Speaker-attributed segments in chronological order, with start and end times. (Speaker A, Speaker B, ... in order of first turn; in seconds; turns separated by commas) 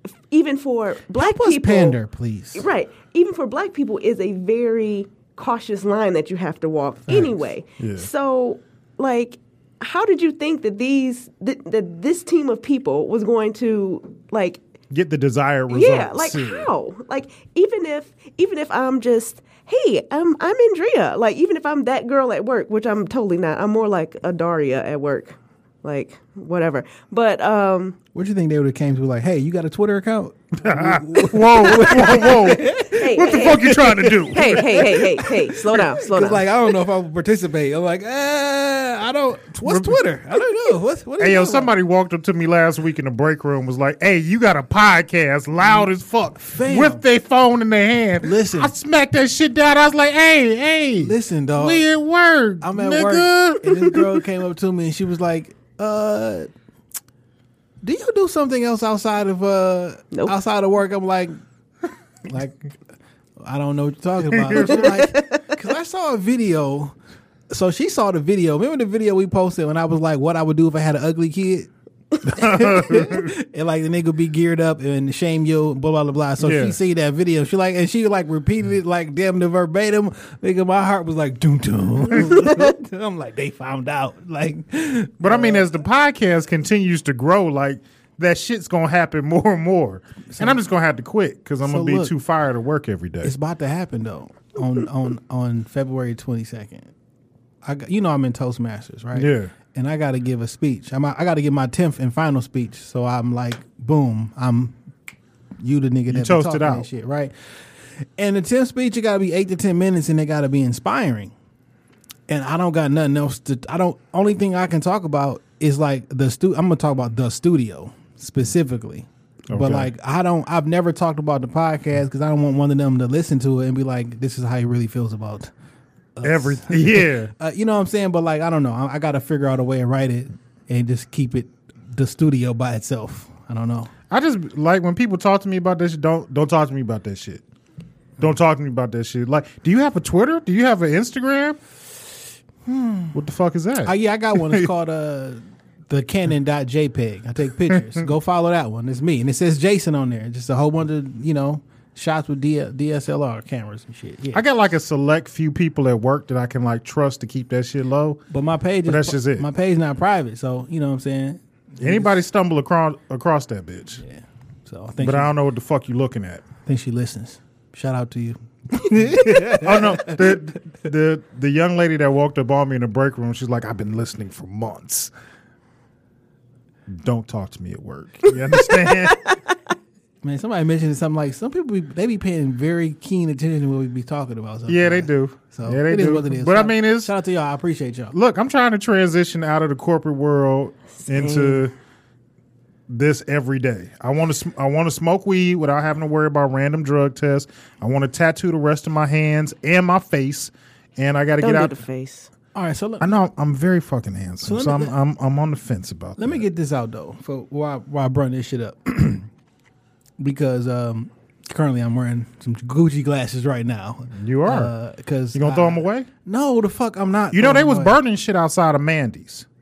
Speaker A: 0.3-2.0, Speaker B: 1.1-2.6, Speaker A: 2.5-14.6, Speaker C: 7.1-8.1, Speaker C: 14.9-16.7, Speaker A: 15.7-28.0, Speaker B: 28.1-41.7, Speaker C: 30.6-35.2, Speaker A: 32.9-36.5, Speaker C: 39.6-40.0, Speaker C: 41.2-54.1, Speaker B: 46.5-47.0, Speaker B: 48.2-48.7, Speaker B: 51.0-51.8, Speaker B: 52.6-56.5, Speaker B: 57.8-61.4, Speaker B: 62.3-62.6, Speaker B: 63.4-67.0, Speaker C: 64.3-64.9, Speaker A: 64.5-65.5, Speaker B: 67.5-71.7, Speaker B: 72.2-85.7, Speaker C: 72.2-73.3, Speaker C: 76.4-76.8, Speaker C: 85.2-93.3, Speaker B: 90.3-90.6, Speaker B: 91.6-92.1, Speaker B: 93.2-96.9, Speaker B: 97.6-104.7, Speaker C: 99.1-99.5, Speaker B: 105.6-111.3, Speaker C: 106.1-106.9, Speaker B: 112.3-125.5, Speaker C: 119.5-119.9, Speaker B: 126.2-133.9, Speaker C: 126.2-127.3, Speaker C: 134.1-137.4, Speaker C: 138.2-141.6, Speaker B: 142.7-143.2, Speaker C: 143.1-144.7, Speaker B: 143.8-154.4, Speaker C: 154.3-158.2, Speaker B: 158.3-162.1, Speaker C: 158.8-159.5, Speaker C: 161.8-164.0, Speaker B: 164.0-165.3, Speaker C: 165.0-166.5, Speaker B: 166.7-170.4, Speaker C: 169.3-175.1, Speaker C: 176.9-179.2, Speaker A: 178.3-179.5, Speaker B: 180.2-188.1, Speaker C: 184.7-187.1, Speaker C: 188.1-191.7, Speaker A: 191.0-191.7, Speaker C: 192.9-201.8, Speaker A: 201.4-202.3, Speaker B: 202.5-203.1, Speaker C: 203.0-206.4, Speaker B: 204.4-204.9, Speaker B: 206.2-209.3, Speaker B: 210.2-218.0, Speaker C: 214.1-214.7, Speaker C: 215.3-216.1, Speaker C: 217.3-219.4